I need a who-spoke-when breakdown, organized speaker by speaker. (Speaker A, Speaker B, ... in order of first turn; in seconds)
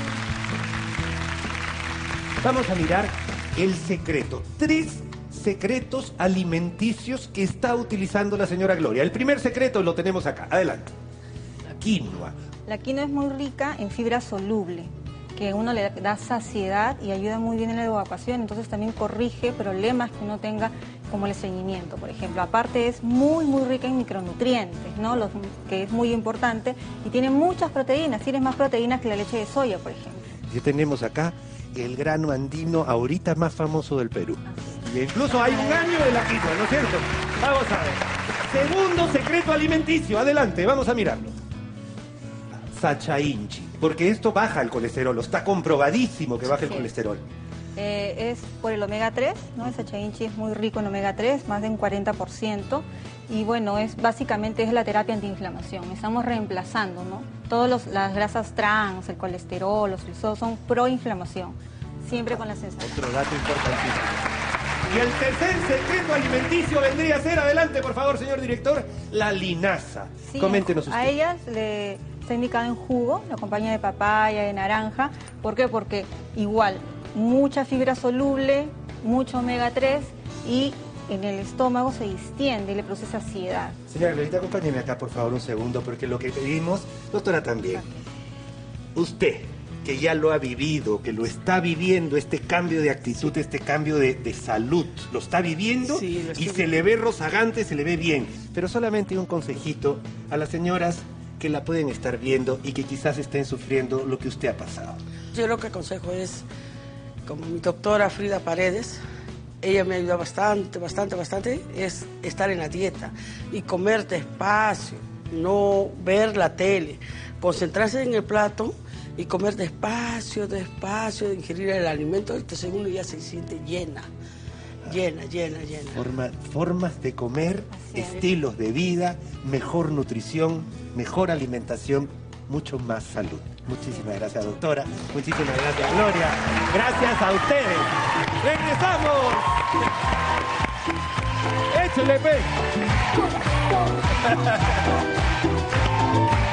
Speaker A: 2.4-10.9, 11.7-12.3, 30.5-41.4, 42.7-47.2, 62.8-64.3, 64.8-71.1, 83.9-87.8, 88.9-105.0, 125.9-139.7, 141.7-142.6, 144.2-144.8
Speaker B: 12.7-30.3, 47.8-63.1, 70.3-83.8
Speaker C: 95.8-96.7, 105.3-106.5, 107.2-109.0, 109.6-124.1, 124.8-126.0